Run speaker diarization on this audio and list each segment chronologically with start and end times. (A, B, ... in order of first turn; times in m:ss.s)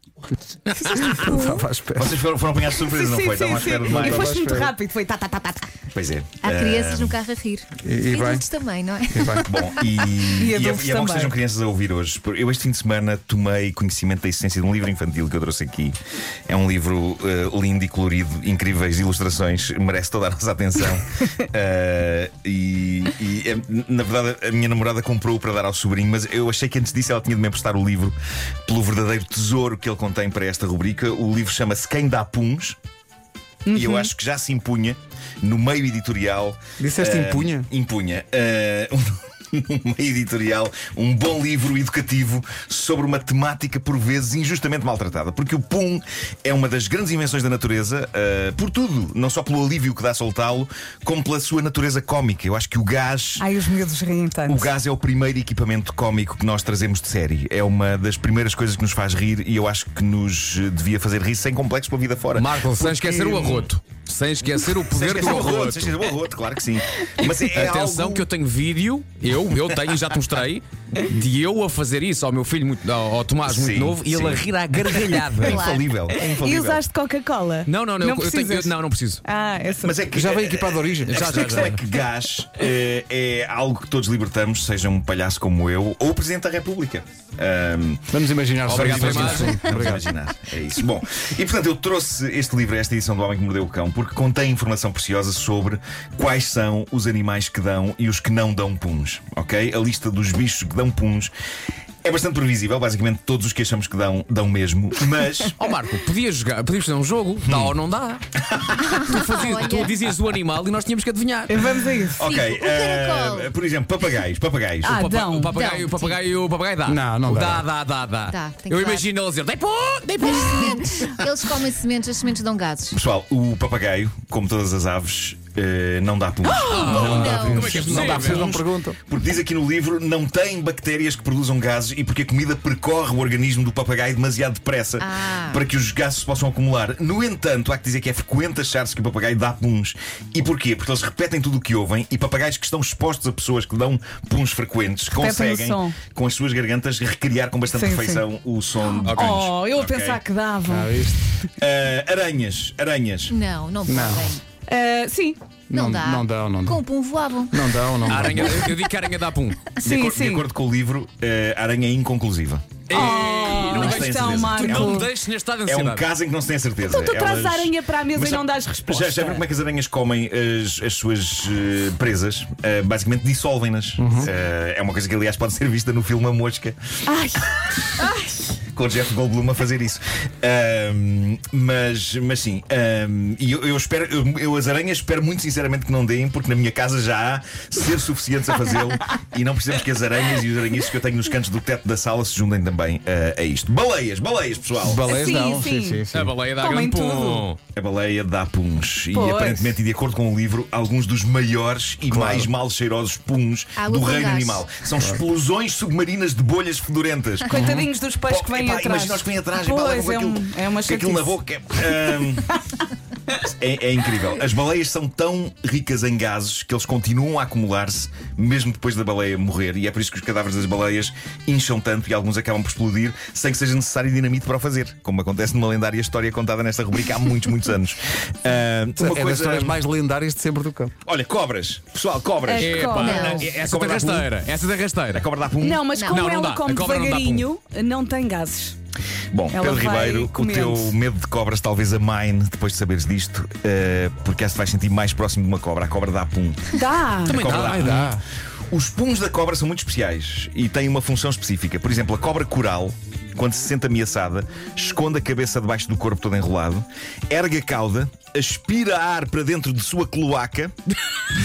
0:00.7-0:01.6 A
0:01.0-0:02.1 B
0:01.9-0:04.4 C
0:02.8-0:05.7 A
0:03.8-0:04.7 B
0:05.9-0:07.2 C
0:06.4-0:09.5 D
0:07.8-0:08.4 B
0:09.1-0:09.5 B
0:09.4-0:16.0 C
0:10.1-0:11.3 A
0:16.5-0:32.8 C
0:33.6-0:34.1 A
0:33.7-0:53.5 C
0:36.8-0:37.7 B
0:53.4-0:54.7 A
0:54.5-1:03.7 C
1:02.3-1:06.0 E
1:04.9-1:08.3 C
1:07.5-1:15.7 E
1:09.7-1:10.0 C
1:13.4-1:16.8 C
1:15.4-1:15.8 D
1:16.1-1:18.7 A
1:17.6-1:19.2 E
1:19.2-1:20.0 A
1:19.8-1:41.3 C
1:20.1-1:21.6 B
1:21.0-1:21.8 E
1:28.1-1:30.0 B
1:28.6-1:29.6 E
1:42.0-1:45.6 C
1:45.6-1:48.2 E
1:47.4-1:47.8 C
1:48.5-1:49.0 C
1:48.9-1:49.9 D
1:49.0-1:51.9 E
1:51.5-1:52.3 A
1:52.2-1:55.0 C
1:52.2-1:53.5 D
1:54.8-1:55.6 A
1:54.9-2:01.2 E
1:55.5-1:56.2 D
1:56.8-1:57.6 B
1:58.3-1:59.0 D
2:00.2-2:03.0 D
2:02.9-2:30.2 C
2:06.5-2:08.5 E
2:06.7-2:07.7 D
2:06.9-2:09.0 B
2:07.7-2:08.1 A
2:15.0-2:15.6 D
2:25.1-2:26.0 A
2:27.7-2:28.2 A
2:28.8-2:31.1 A
2:29.1-2:29.4 E
2:30.7-2:31.2 B
2:31.6-2:33.4 C
2:33.3-2:34.4 D
2:33.8-2:34.3 B
2:34.7-2:35.6 A
2:35.7-2:36.8 B
2:35.7-2:37.5 D
2:37.5-2:38.7 B
2:38.0-2:39.6 E
2:39.8-2:40.4 A
2:39.8-2:45.0 C
2:42.9-2:45.1 A
2:42.9-2:46.0 E
2:45.6-2:56.8 C
2:46.9-2:49.1 A
2:49.2-2:49.4 E
2:54.0-2:54.3 B
2:57.1-2:58.5 A
2:58.7-3:15.1 C
3:14.8-3:16.3 B
3:15.0-3:16.0 A
3:16.1-3:17.6 E
3:16.6-3:17.5 A
3:17.7-3:27.6 C
3:19.1-3:19.7 A
3:22.1-3:22.5 B
3:23.8-3:24.6 D
3:27.5-3:32.2 A
3:27.5-3:27.8 B
3:28.2-3:32.5 C
3:33.4-3:49.8 C
3:49.0-3:50.9 B
3:51.0-3:54.3 C
3:52.5-3:53.5 A
3:52.6-3:55.2 E
3:53.0-3:53.5 D
3:55.1-3:55.9 C
3:55.6-3:58.8 A
3:55.9-3:56.2 D
3:56.0-3:57.5 E
3:59.3-4:08.2 C
3:59.5-4:01.0 A
4:06.8-4:07.4 A
4:07.2-4:08.1 E
4:07.5-4:08.2 B
4:08.7-4:20.8 C